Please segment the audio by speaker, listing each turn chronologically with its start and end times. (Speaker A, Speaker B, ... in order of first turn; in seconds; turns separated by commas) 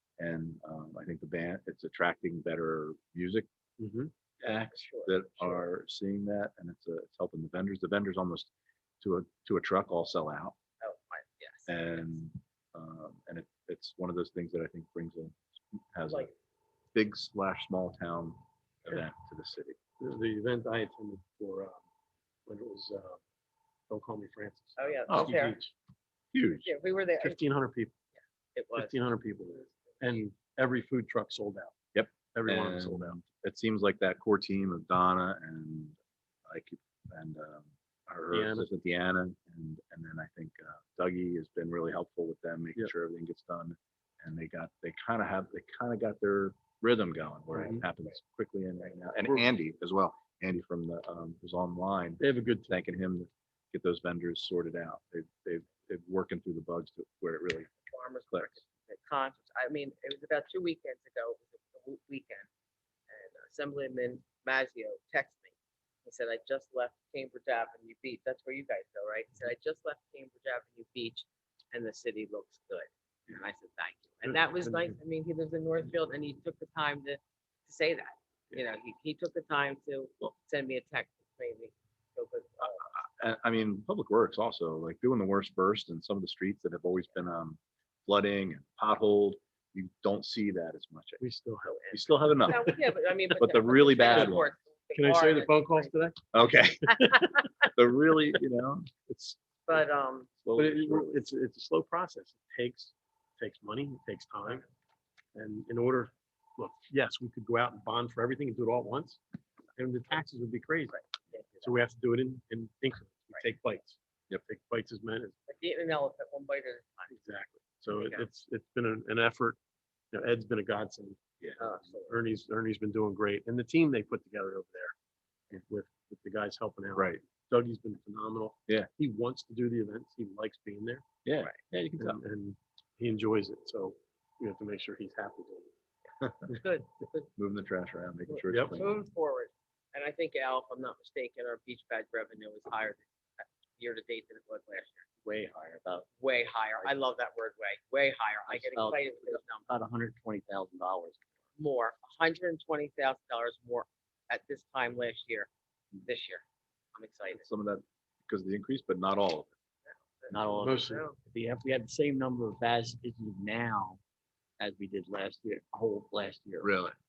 Speaker A: 0.2-3.5, Speaker B: 3.8-4.1, Speaker A: 4.4-8.5, Speaker C: 4.4-5.7, Speaker A: 9.0-10.6, Speaker C: 10.8-12.2, Speaker A: 11.7-16.3, Speaker A: 16.9-19.8, Speaker B: 20.0-21.8, Speaker B: 22.5-23.2, Speaker B: 23.9-25.7, Speaker C: 24.8-25.6, Speaker A: 25.1-25.4, Speaker A: 26.3-26.7, Speaker C: 26.6-27.4, Speaker B: 27.2-28.0, Speaker C: 28.5-29.0, Speaker B: 28.8-31.8, Speaker C: 29.7-30.0, Speaker A: 31.9-57.7, Speaker B: 32.3-33.2, Speaker B: 38.3-38.7, Speaker B: 47.5-47.8, Speaker B: 52.2-52.8, Speaker C: 57.8-62.5, Speaker A: 58.3-58.6, Speaker C: 63.1-65.5, Speaker C: 66.0-82.9, Speaker A: 82.6-91.2, Speaker B: 91.2-92.7, Speaker C: 91.8-95.9, Speaker A: 91.9-92.8, Speaker A: 93.4-94.5, Speaker B: 95.0-96.2, Speaker A: 96.3-97.1, Speaker B: 96.9-97.5, Speaker A: 97.8-99.3, Speaker C: 99.7-100.3, Speaker A: 100.4-101.2, Speaker B: 100.6-104.7, Speaker B: 105.3-109.2, Speaker B: 109.8-111.0, Speaker C: 111.3-111.7, Speaker B: 111.6-115.4, Speaker C: 115.5-117.1, Speaker B: 117.1-119.6, Speaker C: 117.9-118.3, Speaker B: 120.1-124.9, Speaker C: 121.6-122.2, Speaker B: 125.5-131.0, Speaker A: 126.9-127.2, Speaker A: 131.2-132.2, Speaker B: 131.8-135.7, Speaker A: 136.2-136.5, Speaker C: 136.5-137.3, Speaker A: 137.4-138.9, Speaker C: 138.3-145.1, Speaker B: 138.5-138.8, Speaker D: 145.2-146.1, Speaker C: 146.2-149.7, Speaker D: 148.5-151.3, Speaker C: 151.6-155.5, Speaker C: 156.0-156.4, Speaker C: 156.9-157.5, Speaker A: 157.3-159.5, Speaker C: 159.9-161.2, Speaker D: 160.3-164.0, Speaker B: 160.6-161.0, Speaker D: 164.6-166.7, Speaker A: 166.6-166.9